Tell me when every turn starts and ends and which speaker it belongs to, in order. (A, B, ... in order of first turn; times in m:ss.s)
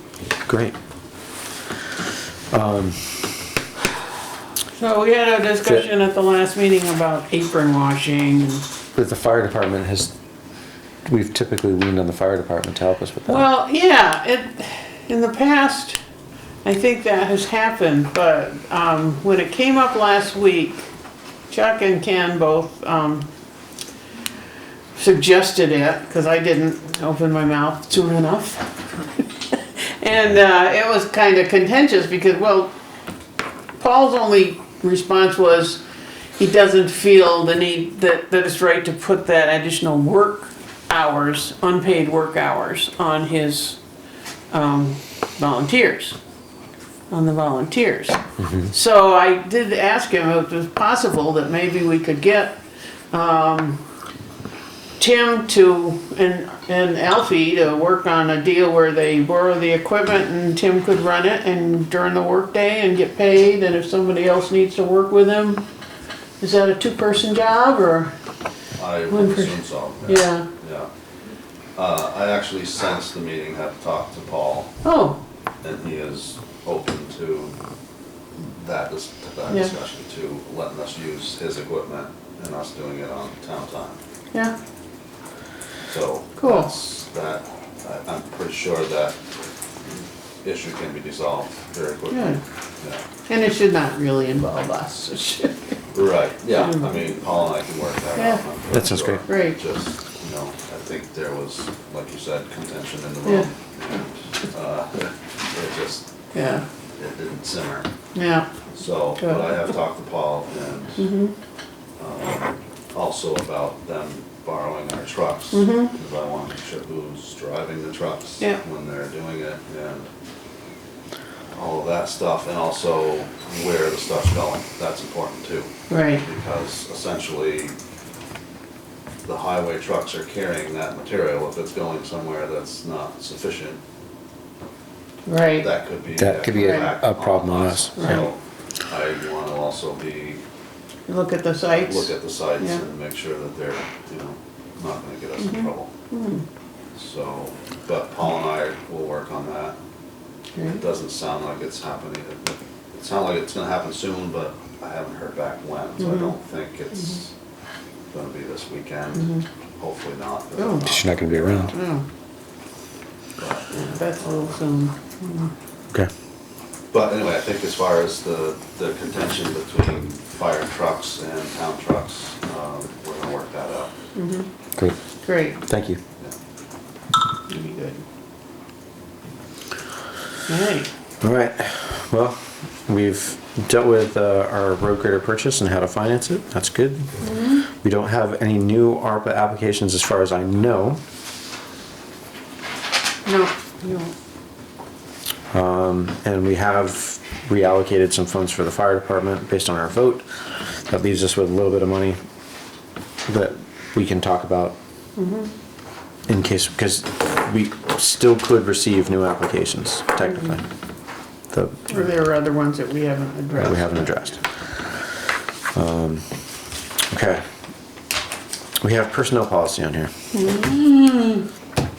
0:00.4-0:00.7 A
0:02.5-0:03.4 A
0:04.7-0:08.6 B
0:08.9-0:10.1 A
0:11.0-0:13.4 A
0:13.2-0:16.0 B
0:16.6-0:20.9 B
0:21.5-0:23.2 B
0:24.9-0:32.7 B
0:33.8-0:35.8 B
0:36.4-0:43.8 B
0:44.5-0:46.2 B
0:47.1-0:52.5 B
0:53.1-0:53.8 B
0:55.0-1:05.6 B
1:06.4-1:08.1 B
1:08.8-1:10.9 C
1:09.1-1:10.5 B
1:11.8-1:14.7 C
1:14.8-1:15.2 B
1:15.6-1:17.6 C
1:18.3-1:24.0 C
1:19.5-1:19.7 B
1:25.9-1:29.2 C
1:26.4-1:26.7 B
1:30.4-1:33.0 C
1:32.1-1:32.4 B
1:33.3-1:35.8 B
1:35.9-1:46.1 C
1:36.5-1:36.8 B
1:38.1-1:38.4 B
1:38.7-1:39.2 A
1:39.3-1:39.6 B
1:46.3-1:46.6 B
1:47.0-1:47.9 C
1:48.1-1:48.5 B
1:48.8-1:51.0 C
1:49.2-1:49.6 B
1:51.0-1:51.3 B
1:52.0-2:00.1 C
1:55.5-1:55.9 B
2:01.5-2:07.7 C
2:05.9-2:06.2 B
2:09.2-2:13.8 C
2:15.2-2:15.7 B
2:15.6-2:20.4 C
2:16.2-2:18.2 A
2:16.5-2:16.9 B
2:18.0-2:18.2 B
2:21.1-2:22.8 B
2:21.7-2:25.9 C
2:25.4-2:26.4 B
2:27.0-2:29.8 C
2:30.6-2:30.8 B
2:30.6-2:37.3 C
2:36.0-2:36.3 B
2:38.1-2:41.7 C
2:39.2-2:39.4 B
2:40.6-2:40.9 B
2:40.8-2:41.7 A
2:41.7-2:42.0 B
2:43.4-2:44.4 C
2:43.7-2:45.5 B
2:46.9-2:53.9 C
2:54.1-2:54.5 B
2:55.2-2:55.6 B
2:55.6-2:56.0 A
2:57.5-2:58.0 B
3:00.5-3:00.9 B
3:01.2-3:07.1 A
3:07.2-3:07.6 B
3:07.8-3:11.0 A
3:13.2-3:14.1 B
3:15.5-3:22.2 A
3:23.3-3:24.8 A
3:25.2-3:25.5 B
3:26.3-3:30.6 A
3:31.5-3:32.0 A
3:31.9-3:34.1 B
3:33.6-3:34.4 A
3:35.7-3:36.2 A
3:37.1-3:37.4 A
3:38.8-3:40.1 A
3:40.3-3:41.4 B